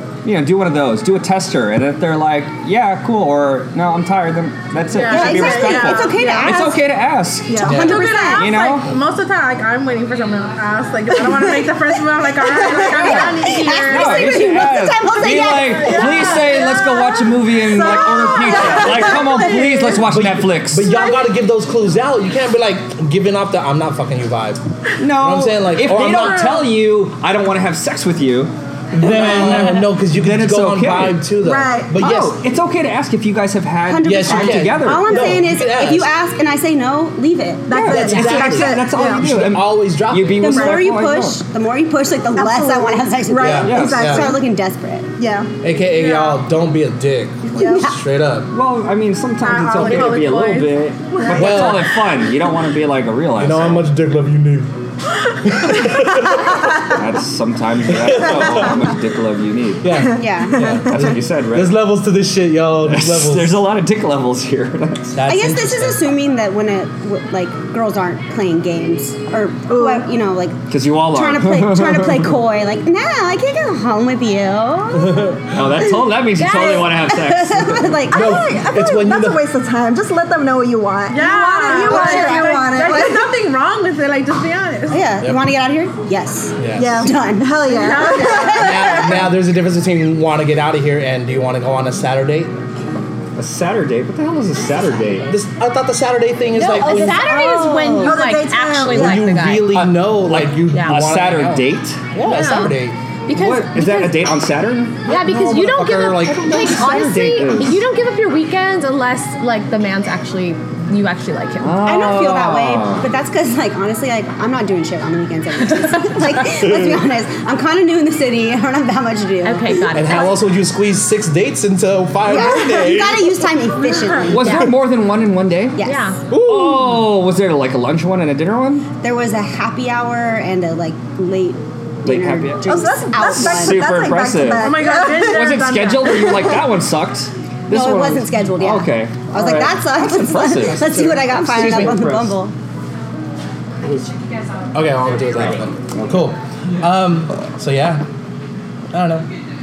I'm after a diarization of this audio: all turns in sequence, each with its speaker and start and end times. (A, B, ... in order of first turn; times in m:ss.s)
0:00.2-0:07.8 A
0:04.9-0:06.6 B
0:05.1-0:06.8 C
0:07.5-0:07.9 D
0:07.6-0:08.5 C
0:07.7-0:08.0 E
0:07.8-0:14.4 B
0:07.9-0:08.7 F
0:08.3-0:08.9 A
0:12.4-0:16.6 C
0:12.8-0:13.0 D
0:12.9-0:13.3 A
0:13.8-0:21.0 A
0:15.5-0:16.4 B
0:16.4-0:19.8 D
0:20.0-0:26.6 E
0:25.0-0:31.2 A
0:25.9-0:26.6 B
0:28.9-0:32.4 E
0:31.4-0:32.0 D
0:32.0-0:35.4 A
0:33.9-0:37.9 C
0:34.0-0:36.1 E
0:37.7-0:39.2 D
0:37.7-0:41.4 A
0:37.9-0:40.8 E
0:38.1-0:38.4 F
0:40.4-0:45.1 C
0:42.4-0:44.4 D
0:43.4-0:44.4 E
0:43.6-0:44.2 A
0:45.2-0:45.5 D
0:45.6-0:48.5 E
0:45.9-0:46.4 B
0:47.6-0:47.9 D
0:47.6-0:47.9 C
0:48.5-0:53.9 A
0:49.4-0:50.8 B
0:51.1-0:51.7 D
0:51.3-0:52.0 E
0:53.4-0:54.8 E
0:55.4-0:56.9 E
0:56.4-0:59.9 A
0:57.9-0:58.9 E
0:59.8-1:03.6 E
0:59.9-1:01.1 D
1:00.2-1:00.6 C
1:00.8-1:01.8 A
1:02.9-1:05.1 A
1:05.1-1:06.1 E
1:05.3-1:15.3 C
1:09.7-1:10.1 D
1:10.7-1:12.4 A
1:14.9-1:15.6 E
1:15.5-1:18.0 A
1:16.0-1:18.4 C
1:16.4-1:16.9 F
1:18.1-1:19.4 E
1:18.1-1:23.3 D
1:21.1-1:25.1 B
1:21.8-1:22.7 C
1:24.9-1:29.2 C
1:25.2-1:25.5 E
1:26.6-1:27.1 E
1:26.8-1:29.0 D
1:27.8-1:29.0 B
1:28.6-1:32.5 E
1:33.4-1:35.4 A
1:35.3-1:37.3 E
1:36.6-1:39.8 F
1:36.8-1:38.2 C
1:37.2-1:39.2 D
1:38.9-1:43.0 E
1:39.7-1:42.2 A
1:40.7-1:41.0 F
1:42.2-1:44.2 F
1:43.3-1:45.0 A
1:45.1-1:46.9 E
1:45.1-1:51.9 F
1:46.4-1:47.8 A
1:51.6-1:53.1 A
1:51.8-2:00.3 C
1:55.7-1:56.4 F
1:56.5-1:57.0 E
1:59.4-2:00.4 F
1:59.9-2:03.5 E
2:02.2-2:04.7 C
2:04.2-2:05.8 A
2:05.8-2:06.1 C
2:05.8-2:06.2 F
2:06.3-2:07.1 E
2:06.3-2:08.8 A
2:09.0-2:13.8 C
2:12.0-2:22.4 A
2:12.6-2:16.6 D
2:14.6-2:16.4 B
2:17.7-2:22.5 C
2:20.6-2:22.0 E
2:24.7-2:28.0 E
2:25.6-2:26.3 A
2:28.9-2:29.3 E